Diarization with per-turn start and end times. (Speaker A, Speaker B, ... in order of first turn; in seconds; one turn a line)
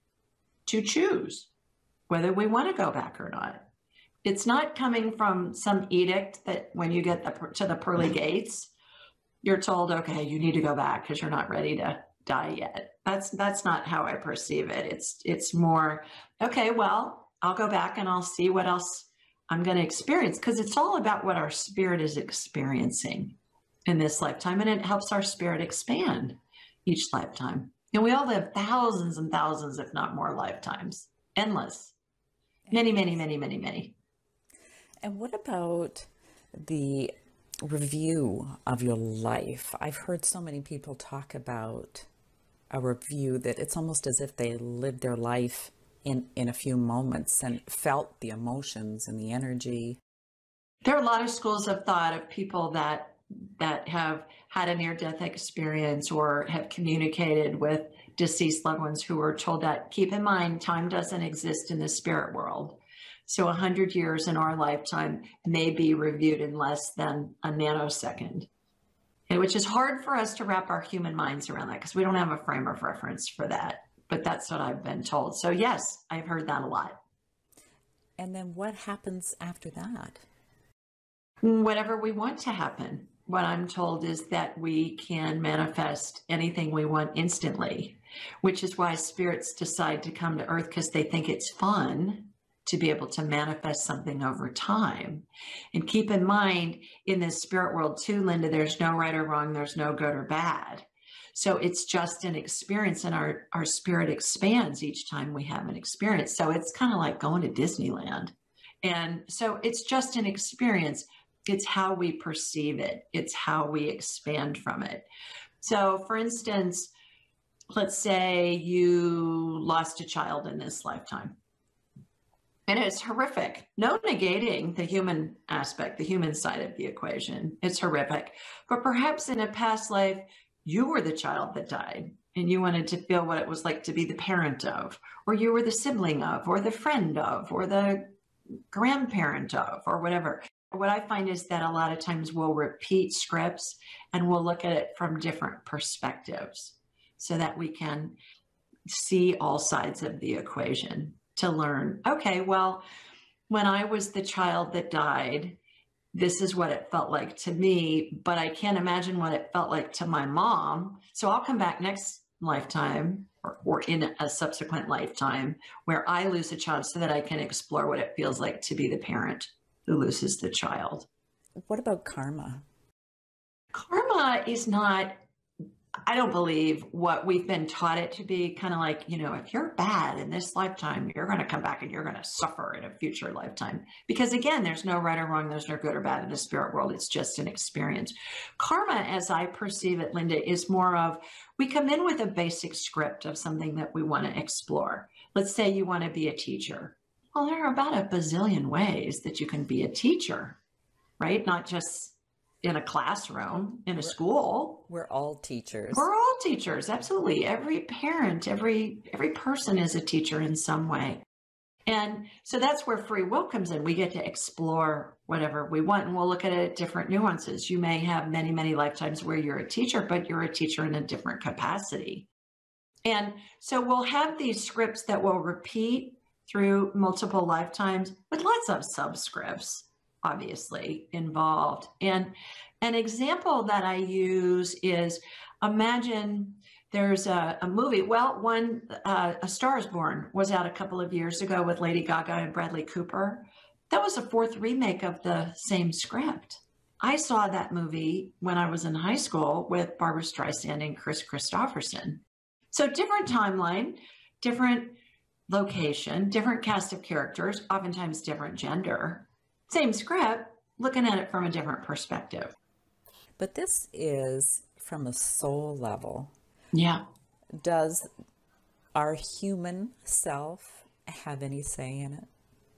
Speaker A: 0.7-1.5
Speaker A: 2.1-3.6
Speaker A: 4.2-8.7
Speaker A: 9.4-31.9
Speaker A: 32.7-34.0
Speaker B: 35.0-42.1
Speaker B: 42.7-50.0
Speaker A: 50.9-68.5
Speaker A: 69.3-77.0
Speaker B: 78.2-80.2
Speaker A: 81.4-115.0
Speaker A: 115.6-116.9
Speaker A: 117.7-121.4
Speaker A: 122.7-138.1
Speaker A: 138.7-148.2
Speaker A: 148.9-152.8
Speaker A: 153.5-155.6
Speaker A: 156.1-171.1
Speaker B: 171.6-172.6
Speaker A: 173.7-175.2
Speaker A: 176.1-200.6
Speaker A: 201.2-204.8
Speaker B: 204.9-206.1
Speaker A: 205.9-211.2
Speaker A: 211.9-222.3
Speaker A: 223.0-255.0
Speaker A: 255.5-262.5
Speaker B: 263.4-266.3
Speaker A: 266.7-267.0
Speaker B: 267.5-268.1
Speaker B: 268.9-272.3